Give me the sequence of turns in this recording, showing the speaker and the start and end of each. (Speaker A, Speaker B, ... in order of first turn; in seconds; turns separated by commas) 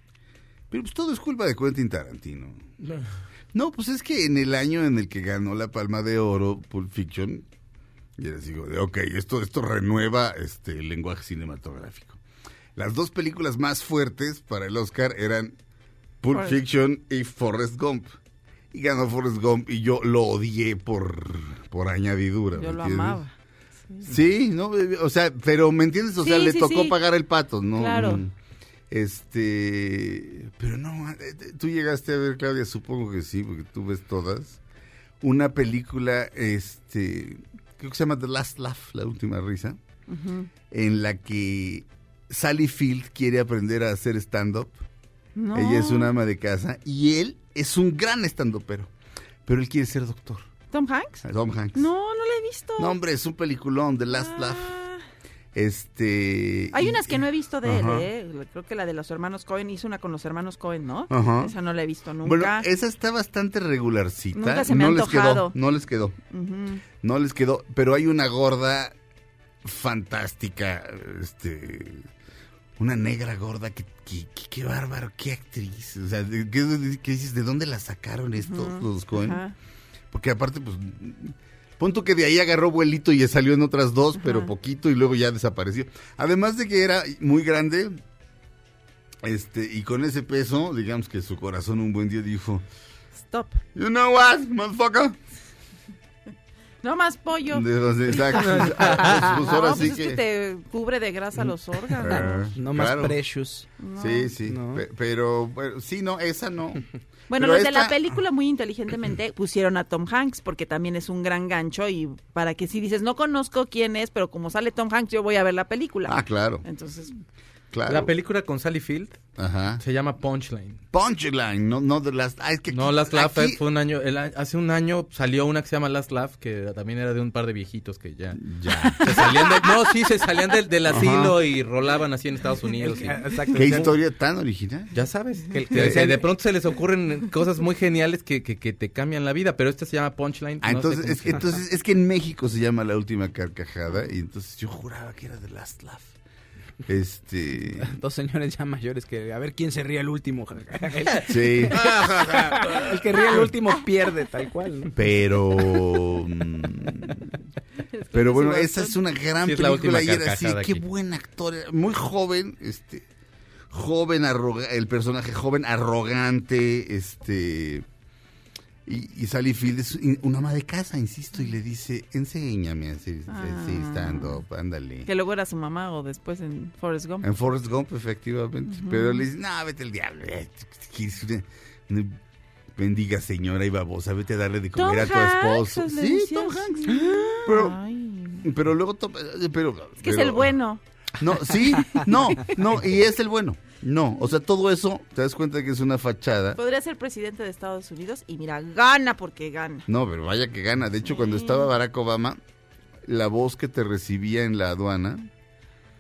Speaker A: 0.7-2.7, Speaker A: 3.5-7.5, Speaker A: 8.2-12.2, Speaker A: 12.8-15.6, Speaker A: 16.2-18.2, Speaker A: 18.7-23.2, Speaker B: 22.6-23.3, Speaker A: 24.1-28.3, Speaker B: 26.2-27.0, Speaker B: 27.8-28.2, Speaker A: 28.9-34.6, Speaker A: 35.2-39.8, Speaker B: 40.1-40.5, Speaker A: 40.7-44.8, Speaker B: 45.4-46.1, Speaker A: 45.5-48.9, Speaker A: 49.5-50.5, Speaker B: 50.7-52.9, Speaker A: 51.2-51.9, Speaker A: 52.8-54.7, Speaker B: 54.1-55.0, Speaker A: 55.5-58.1, Speaker B: 56.7-62.7, Speaker A: 61.1-61.5, Speaker A: 62.2-66.2, Speaker B: 64.3-65.5, Speaker B: 66.3-66.8, Speaker A: 67.0-69.0, Speaker A: 69.6-72.1, Speaker A: 72.8-79.4, Speaker B: 78.4-79.5, Speaker A: 80.1-88.0, Speaker B: 84.2-84.5, Speaker A: 89.2-92.6, Speaker B: 93.2-93.6, Speaker A: 93.8-95.2, Speaker B: 96.8-102.5, Speaker A: 97.5-100.2, Speaker A: 102.0-103.2, Speaker C: 102.6-103.7, Speaker B: 103.8-104.3, Speaker A: 104.0-108.0, Speaker C: 104.5-104.8, Speaker B: 107.3-117.1, Speaker A: 116.1-116.7, Speaker A: 117.7-118.1, Speaker D: 117.9-119.2, Speaker A: 119.4-119.8, Speaker D: 119.8-120.8, Speaker A: 120.9-123.6, Speaker D: 122.7-128.4, Speaker A: 128.4-129.4, Speaker B: 128.8-129.7, Speaker D: 129.0-133.7, Speaker A: 130.9-131.4, Speaker C: 132.8-133.9, Speaker A: 133.5-135.0, Speaker D: 134.9-141.6, Speaker C: 135.5-136.2, Speaker A: 135.8-136.1, Speaker A: 140.6-146.2, Speaker A: 146.9-147.9, Speaker C: 147.8-154.9, Speaker A: 151.3-152.0, Speaker D: 151.7-153.0, Speaker A: 154.9-157.3, Speaker B: 157.9-159.0, Speaker A: 158.1-163.1, Speaker D: 159.4-160.8, Speaker A: 163.7-167.9, Speaker A: 168.9-175.1, Speaker B: 173.3-174.4, Speaker B: 175.1-177.3, Speaker A: 177.2-182.2, Speaker B: 178.7-179.2, Speaker A: 182.8-187.8, Speaker B: 184.8-188.4, Speaker A: 188.4-190.6, Speaker B: 190.0-190.8, Speaker A: 191.2-196.6, Speaker B: 196.6-199.9, Speaker A: 199.9-202.4, Speaker B: 201.1-201.7, Speaker A: 203.0-205.3